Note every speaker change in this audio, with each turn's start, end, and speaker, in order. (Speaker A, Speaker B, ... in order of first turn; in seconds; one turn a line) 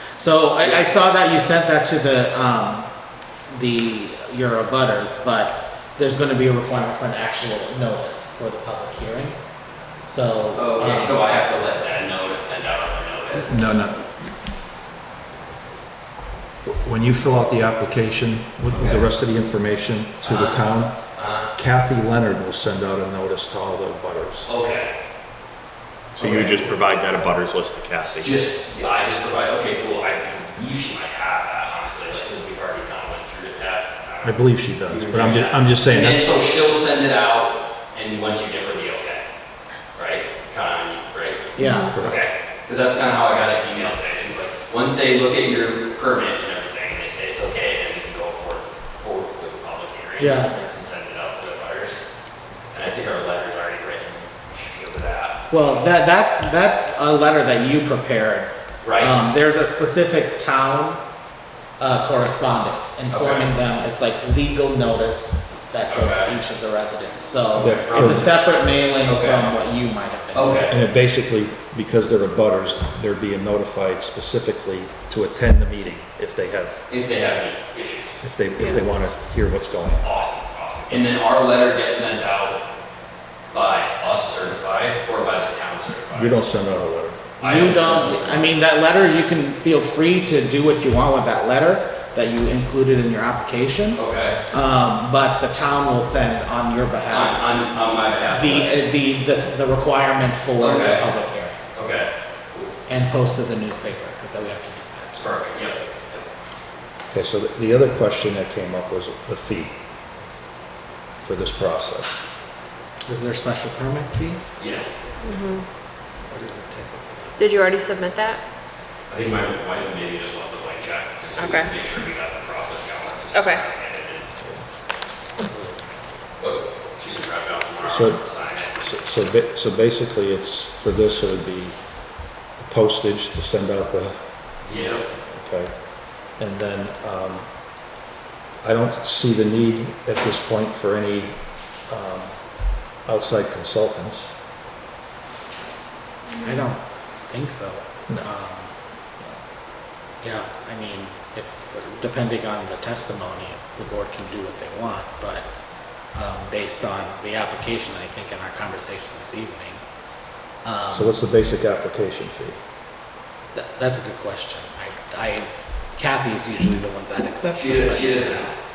Speaker A: 0.2-2.9
Speaker B: 0.6-0.9
Speaker A: 3.5-9.4
Speaker A: 10.1-11.2
Speaker B: 10.5-13.7
Speaker C: 13.3-14.1
Speaker C: 16.6-24.5
Speaker B: 18.7-19.0
Speaker B: 20.2-21.5
Speaker B: 24.4-24.9
Speaker B: 26.2-26.7
Speaker D: 26.2-28.4
Speaker B: 28.2-39.2
Speaker C: 34.2-36.4
Speaker B: 39.9-52.0
Speaker A: 41.5-41.9
Speaker E: 41.6-41.9
Speaker C: 41.9-42.2
Speaker A: 50.2-50.5
Speaker B: 52.7-55.4
Speaker A: 55.5-61.0
Speaker B: 58.8-59.2
Speaker A: 61.8-70.8
Speaker B: 63.1-63.5
Speaker B: 65.9-66.3
Speaker C: 67.5-68.3
Speaker B: 67.6-68.3
Speaker B: 69.0-69.5
Speaker B: 70.3-70.7
Speaker C: 70.7-76.8
Speaker B: 76.9-78.2
Speaker C: 78.2-80.0
Speaker B: 80.0-82.6
Speaker B: 83.5-86.4
Speaker C: 86.1-87.8
Speaker B: 87.4-88.5
Speaker A: 87.4-97.4
Speaker B: 93.9-94.4
Speaker B: 97.1-98.8
Speaker A: 98.3-101.6
Speaker B: 100.6-101.1
Speaker B: 101.7-102.7
Speaker A: 102.9-105.4
Speaker B: 105.2-106.2
Speaker C: 107.1-109.8
Speaker C: 111.2-112.2
Speaker A: 113.1-114.4
Speaker B: 114.6-114.9
Speaker E: 115.2-115.6
Speaker A: 116.3-117.2
Speaker E: 117.4-118.4
Speaker B: 119.1-124.5
Speaker E: 121.4-121.7
Speaker E: 123.3-123.6
Speaker A: 125.4-125.8
Speaker B: 126.4-128.9
Speaker C: 127.8-134.5
Speaker B: 134.6-135.1
Speaker C: 135.2-137.6
Speaker C: 138.6-144.3
Speaker E: 146.3-146.7
Speaker A: 146.4-148.7
Speaker A: 150.2-155.5
Speaker A: 156.1-159.8
Speaker A: 160.6-161.1
Speaker C: 160.9-162.6
Speaker A: 163.5-168.5
Speaker B: 167.5-168.5